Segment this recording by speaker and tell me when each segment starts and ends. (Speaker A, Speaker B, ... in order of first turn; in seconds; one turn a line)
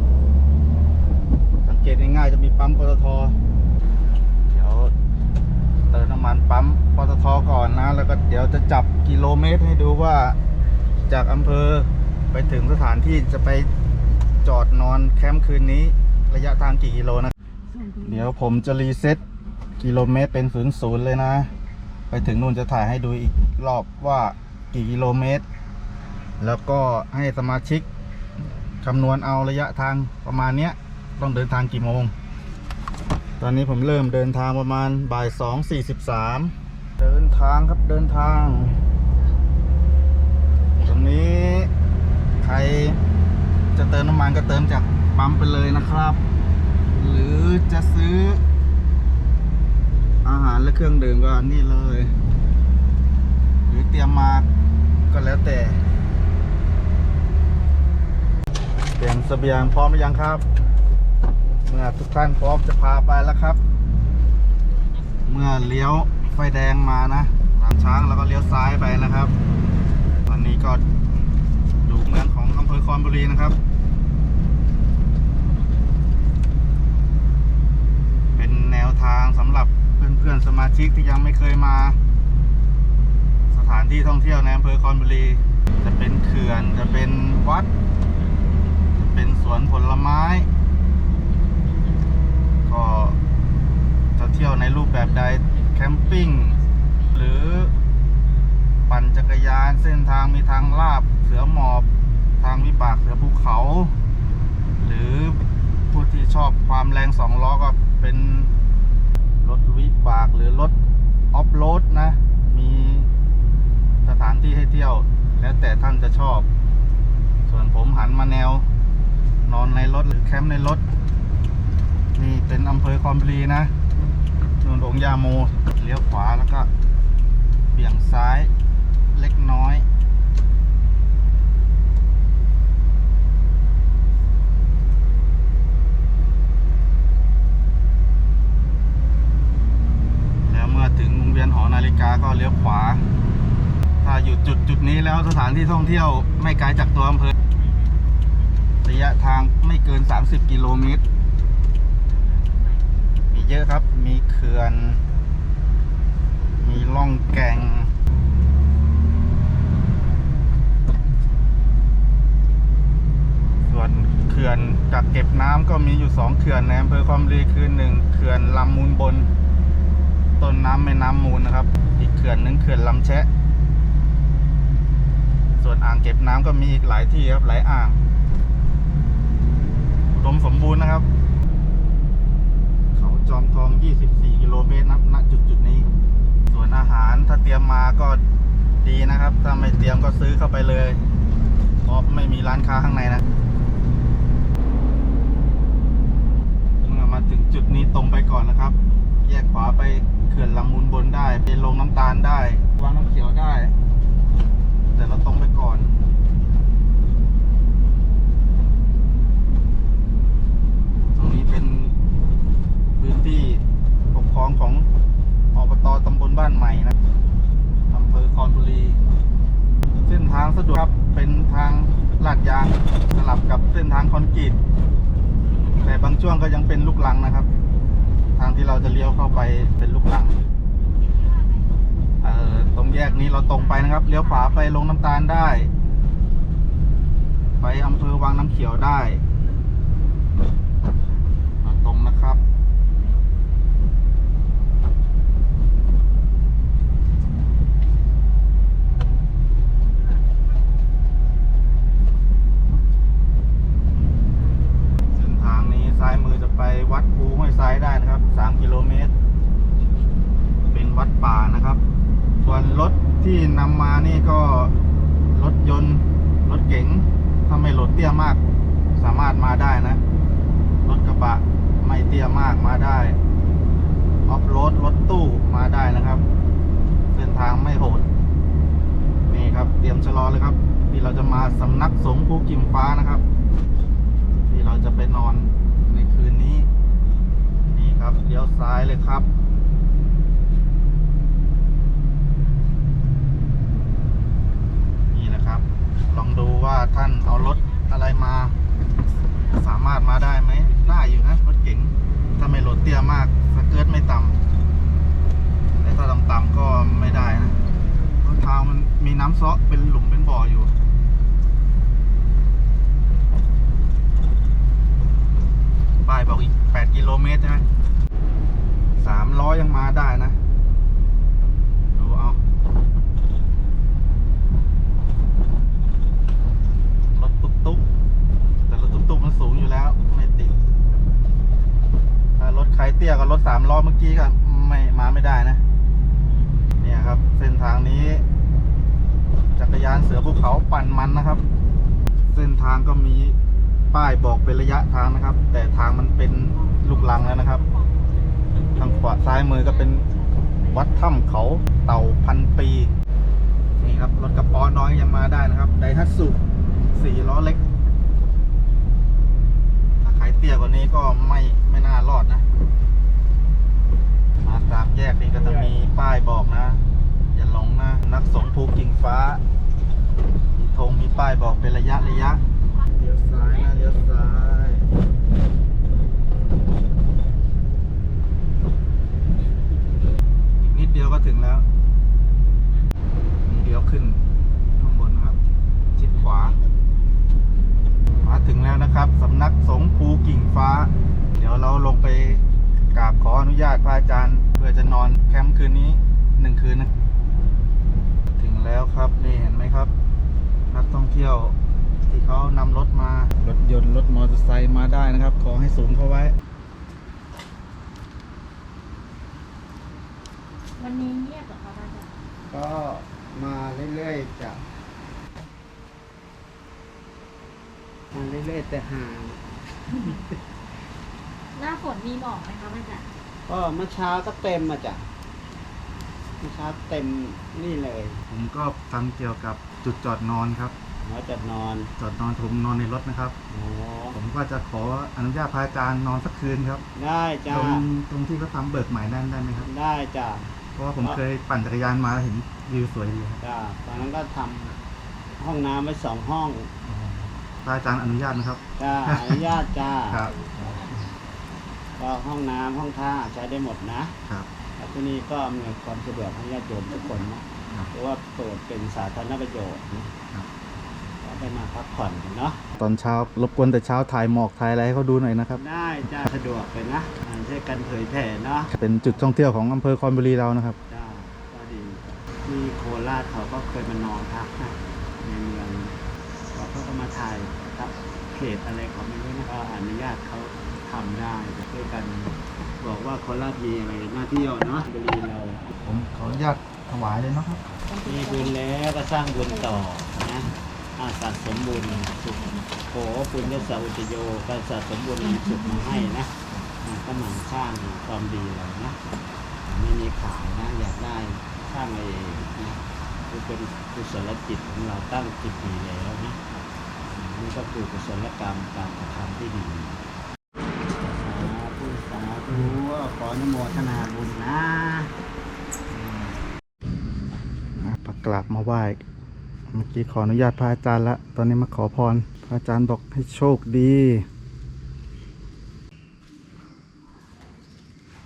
Speaker A: 1.6-3.3
Speaker A: 4.5-4.9
Speaker A: 5.9-10.4
Speaker A: 11.1-13.7
Speaker A: 14.4-17.3
Speaker A: 18.0-19.2
Speaker A: 19.8-21.5
Speaker A: 22.1-25.4
Speaker A: 26.4-27.9
Speaker A: 28.8-32.1
Speaker A: 33.4-38.8
Speaker A: 40.8-41.7
Speaker A: 42.4-43.0
Speaker A: 43.7-46.2
Speaker A: 46.9-48.4
Speaker A: 50.2-52.1
Speaker A: 53.6-54.5
Speaker A: 55.1-55.8
Speaker A: 59.0-60.4
Speaker A: 61.6-63.6
Speaker A: 65.3-69.3
Speaker A: 70.2-70.8
Speaker A: 71.8-73.6
Speaker A: 78.3-82.0
Speaker A: 83.5-87.7
Speaker A: 88.9-90.5
Speaker A: 92.7-93.2
Speaker A: 94.2-96.6
Speaker A: 97.1-97.7
Speaker A: 98.9-101.9
Speaker A: 102.4-103.9
Speaker A: 104.8-108.5
Speaker A: 109.4-110.7
Speaker A: 111.3-113.1
Speaker A: 114.0-116.5
Speaker A: 117.5-118.7
Speaker A: 119.4-120.8
Speaker A: 122.2-123.7
Speaker A: 124.6-126.7
Speaker A: 127.7-128.5
Speaker A: 129.1-129.8
Speaker A: 140.4-143.0
Speaker A: 144.0-147.3
Speaker A: 148.8-151.0
Speaker A: 153.3-155.0
Speaker A: 156.6-157.9
Speaker A: 163.6-169.3
Speaker A: 170.4-173.3
Speaker A: 175.6-178.0
Speaker A: 180.1-181.1
Speaker A: 182.9-185.9
Speaker A: 186.5-188.2
Speaker A: 188.8-191.0
Speaker A: 191.8-193.2
Speaker A: 196.8-203.7
Speaker A: 204.9-205.9
Speaker A: 211.2-211.9
Speaker A: 213.0-214.9
Speaker A: 215.5-216.9
Speaker A: 217.9-219.0
Speaker A: 220.0-224.6
Speaker A: 225.8-227.5
Speaker A: 228.4-230.4
Speaker A: 232.2-235.7
Speaker A: 237.6-239.2
Speaker A: 241.6-242.4
Speaker A: 255.1-259.1
Speaker A: 260.7-261.8
Speaker A: 262.4-264.7
Speaker A: 265.3-268.4
Speaker A: 269.0-270.0
Speaker A: 270.8-273.2
Speaker A: 274.2-276.2
Speaker A: 277.1-278.1
Speaker A: 279.2-283.2
Speaker A: 284.5-286.7
Speaker A: 287.7-289.3
Speaker A: 295.1-298.5
Speaker A: 299.5-304.4
Speaker A: 305.8-307.6
Speaker A: 308.2-310.7
Speaker A: 316.0-317.6
Speaker A: 319.0-320.4
Speaker A: 321.9-322.4
Speaker A: 327.1-327.8
Speaker A: 328.7-330.6
Speaker A: 332.4-335.6
Speaker A: 336.8-338.2
Speaker A: 339.6-341.4
Speaker A: 342.3-343.4
Speaker A: 343.9-347.6
Speaker A: 348.8-350.0
Speaker A: 350.6-352.9
Speaker A: 353.8-356.4
Speaker A: 356.9-357.6
Speaker A: 360.0-362.4
Speaker A: 364.4-366.8
Speaker A: 367.3-369.4
Speaker A: 370.5-372.4
Speaker A: 372.9-374.8
Speaker A: 380.6-381.6
Speaker A: 383.4-384.2
Speaker A: 384.8-385.4
Speaker A: 386.0-386.6
Speaker A: 388.2-392.4
Speaker A: 392.9-396.9
Speaker A: 398.3-399.9
Speaker A: 400.7-401.6
Speaker A: 402.1-406.3
Speaker B: 410.8-412.1
Speaker C: 412.5-414.6
Speaker C: 418.1-420.2
Speaker B: 421.5-423.0
Speaker C: 423.4-425.1
Speaker C: 426.4-428.2
Speaker A: 428.3-430.7
Speaker C: 431.0-431.9
Speaker A: 432.0-433.4
Speaker C: 433.5-434.2
Speaker A: 434.1-436.8
Speaker C: 436.9-437.9
Speaker A: 437.5-439.7
Speaker C: 439.6-441.2
Speaker A: 440.8-443.4
Speaker C: 443.4-444.8
Speaker C: 445.4-446.7
Speaker A: 446.9-449.5
Speaker C: 448.8-450.3
Speaker A: 450.1-451.1
Speaker C: 452.0-454.1
Speaker C: 454.8-460.1
Speaker C: 461.2-462.7
Speaker A: 462.8-466.3
Speaker C: 465.5-469.2
Speaker A: 468.7-470.8
Speaker C: 470.9-475.9
Speaker C: 476.5-485.7
Speaker A: 485.8-487.6
Speaker B: 487.9-488.5
Speaker C: 488.0-499.0
Speaker C: 499.6-510.0
Speaker C: 511.0-515.1
Speaker A: 517.8-519.0
Speaker A: 519.7-524.2